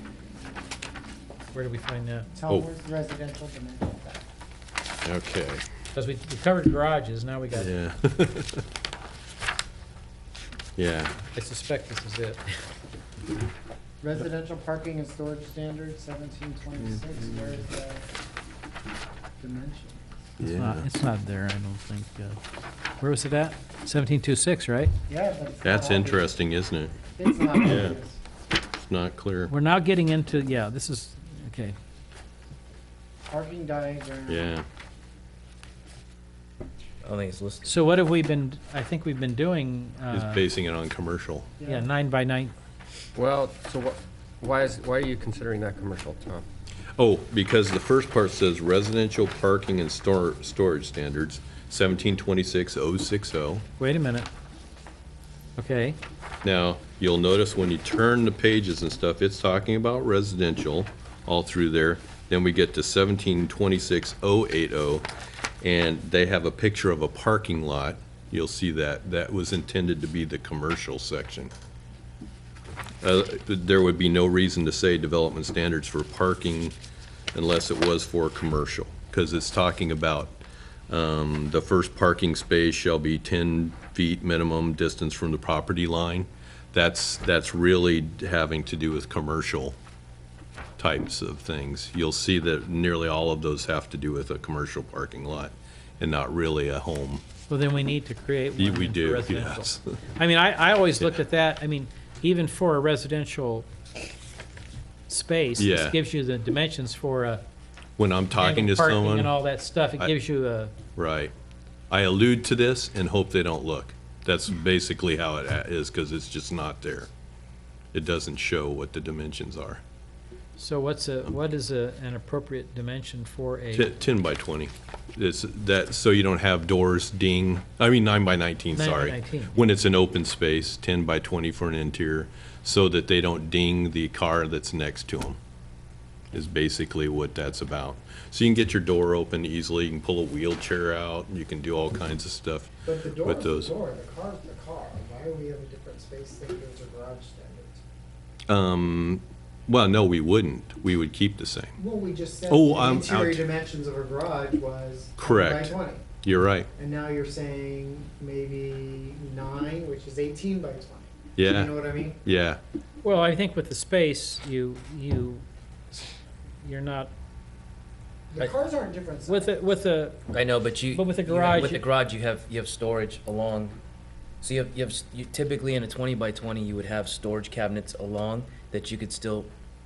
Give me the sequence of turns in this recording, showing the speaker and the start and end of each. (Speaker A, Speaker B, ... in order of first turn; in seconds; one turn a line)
Speaker A: 1.5-2.3
Speaker B: 2.4-4.2
Speaker C: 5.0-5.6
Speaker A: 6.0-7.8
Speaker C: 7.6-8.6
Speaker C: 10.8-11.2
Speaker A: 11.3-12.4
Speaker B: 14.0-18.1
Speaker B: 19.4-20.2
Speaker C: 20.4-20.9
Speaker A: 20.4-22.4
Speaker A: 23.0-24.9
Speaker B: 25.1-26.3
Speaker C: 25.6-26.9
Speaker B: 27.2-28.2
Speaker C: 27.6-28.0
Speaker C: 28.7-29.5
Speaker A: 29.5-31.8
Speaker B: 33.3-34.5
Speaker C: 34.3-34.7
Speaker D: 37.0-37.8
Speaker A: 37.6-40.5
Speaker C: 40.1-41.5
Speaker B: 41.6-41.9
Speaker A: 41.6-42.5
Speaker E: 43.2-46.5
Speaker C: 47.0-53.6
Speaker A: 53.8-54.3
Speaker A: 55.6-56.0
Speaker C: 56.4-65.1
Speaker C: 65.6-71.5
Speaker C: 73.0-76.7
Speaker C: 77.3-80.4
Speaker C: 80.9-89.8
Speaker C: 90.8-97.2
Speaker A: 97.5-103.7
Speaker C: 98.6-99.9
Speaker A: 105.1-107.4
Speaker C: 105.6-106.0
Speaker C: 108.0-109.4
Speaker A: 108.3-110.7
Speaker C: 111.0-111.3
Speaker C: 111.9-117.1
Speaker C: 117.9-119.8
Speaker A: 120.6-123.9
Speaker C: 123.7-135.4
Speaker A: 128.7-129.6
Speaker C: 136.3-143.7
Speaker B: 142.8-147.8
Speaker C: 148.5-151.8
Speaker B: 151.8-156.0
Speaker C: 152.5-153.5
Speaker C: 155.2-156.7
Speaker B: 156.8-162.2
Speaker C: 161.4-162.6
Speaker A: 163.0-166.1
Speaker A: 166.6-167.1
Speaker B: 168.3-169.6
Speaker A: 169.3-170.3
Speaker D: 170.3-173.8
Speaker A: 170.9-171.9
Speaker D: 174.4-179.5